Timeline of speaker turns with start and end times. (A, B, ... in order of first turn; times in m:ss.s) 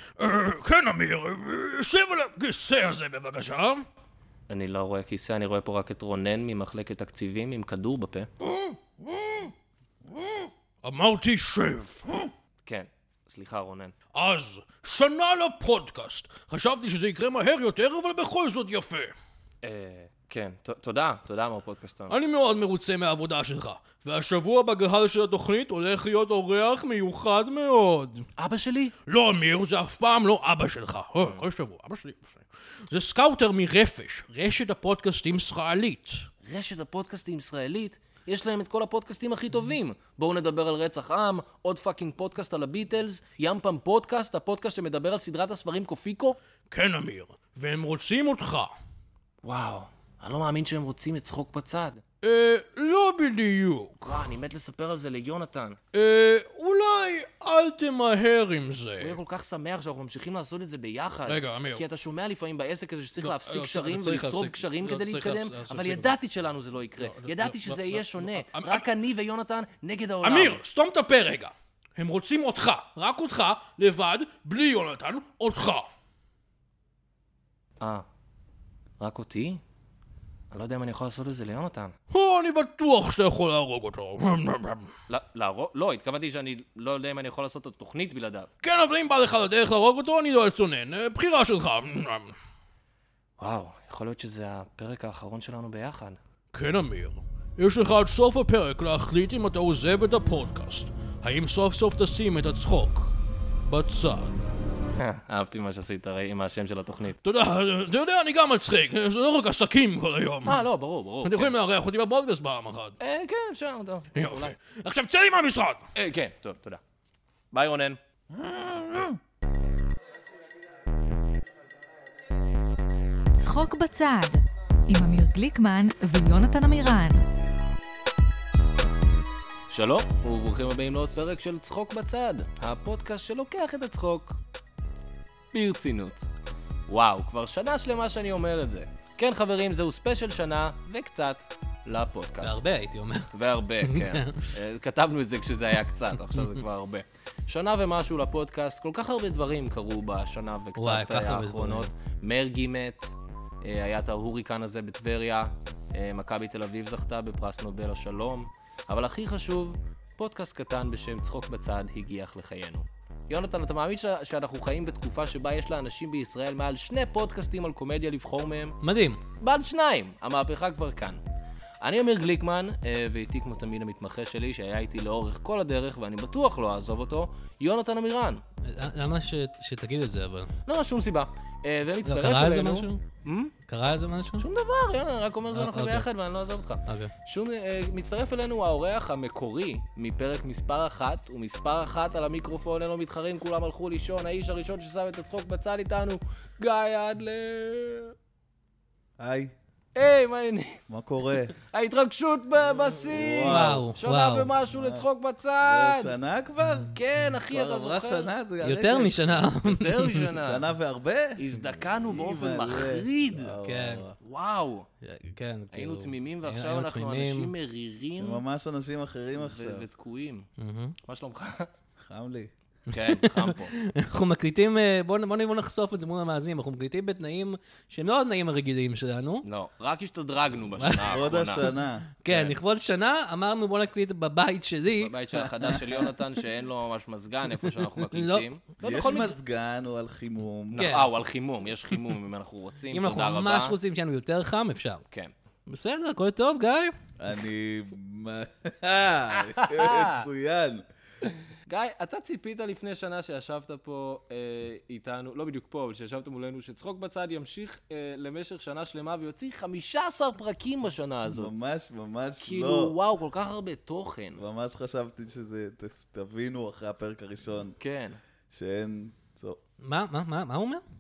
0:00.2-0:03.8 A
0:04.5-0:08.3 B
0:08.6-0:09.5 A
0:10.2-0:12.3 A
0:12.6-0:13.9 B
0:14.1-0:19.1 A
0:19.6-0:22.2 B
0:22.1-0:28.2 A
0:28.4-0:28.9 B
0:29.0-0:36.3 A
0:36.4-0:46.4 B
0:46.7-0:48.7 A
0:49.4-0:52.0 B
0:52.2-0:54.2 A
0:54.0-0:55.8 B
0:55.9-0:59.2 A
0:59.0-1:10.6 B
1:01.3-1:01.8 A
1:03.2-1:06.1 A
1:07.0-1:08.8 A
1:10.2-1:15.9 A
1:17.8-1:18.0 B
1:19.0-1:19.6 B
1:20.5-1:21.9 B
1:22.1-1:24.9 A
1:25.1-1:28.5 B
1:28.6-1:32.3 A
1:33.4-1:36.2 B
1:36.5-1:44.4 A
1:45.0-1:47.2 B
1:47.2-1:50.6 A
1:50.4-1:51.5 B
1:51.2-1:53.0 A
1:53.0-1:54.6 B
1:54.1-1:55.8 A
1:55.9-1:56.8 B
1:57.5-1:58.0 B
1:58.4-1:59.1 A
2:03.3-2:07.2 C
2:09.7-2:14.4 B
2:15.5-2:16.3 B
2:16.9-2:22.6 B
2:22.4-2:24.4 D
2:23.3-2:48.8 B
2:30.8-2:31.9 D
2:48.8-2:49.2 D
2:49.4-2:51.2 B
2:51.8-2:58.4 B
2:58.6-3:00.5 D
3:00.6-3:03.5 B
3:02.0-3:03.0 D
3:03.7-3:04.4 D
3:04.4-3:18.1 B
3:05.5-3:06.1 D
3:06.8-3:07.1 D
3:19.2-3:19.5 E
3:19.9-3:20.8 B
3:20.9-3:21.5 E
3:21.6-3:26.1 B
3:23.1-3:23.9 E
3:23.4-3:24.5 D
3:24.7-3:25.0 E
3:25.6-3:27.0 E
3:26.9-3:28.3 B
3:27.5-3:29.4 E
3:28.6-3:30.2 D
3:29.6-3:30.6 B
3:30.4-3:34.2 E
3:31.4-3:33.5 B
3:33.6-3:34.0 D
3:34.2-3:34.9 B
3:35.0-3:37.5 D
3:35.7-3:38.4 B
3:38.2-3:39.8 E
3:39.4-3:40.5 B
3:40.6-3:40.9 D
3:41.0-3:41.7 B
3:42.0-3:42.5 E
3:42.9-3:43.7 B
3:42.9-3:49.4 D
3:49.4-3:51.6 B
3:50.8-3:51.2 D
3:51.1-3:52.1 E
3:52.2-3:55.8 D
3:52.3-3:52.6 B
3:55.0-3:59.3 B
3:58.1-3:58.4 D
3:58.8-4:00.9 E
4:00.7-4:03.8 B
4:00.8-4:01.1 D
4:02.9-4:05.0 D
4:05.7-4:06.9 D
4:07.2-4:10.8 E
4:09.3-4:10.2 B
4:11.7-4:21.5 B
4:21.3-4:22.9 E
4:22.4-4:24.4 B
4:24.4-4:27.8 E
4:27.8-4:28.2 B
4:28.5-4:29.6 E
4:29.8-4:30.8 D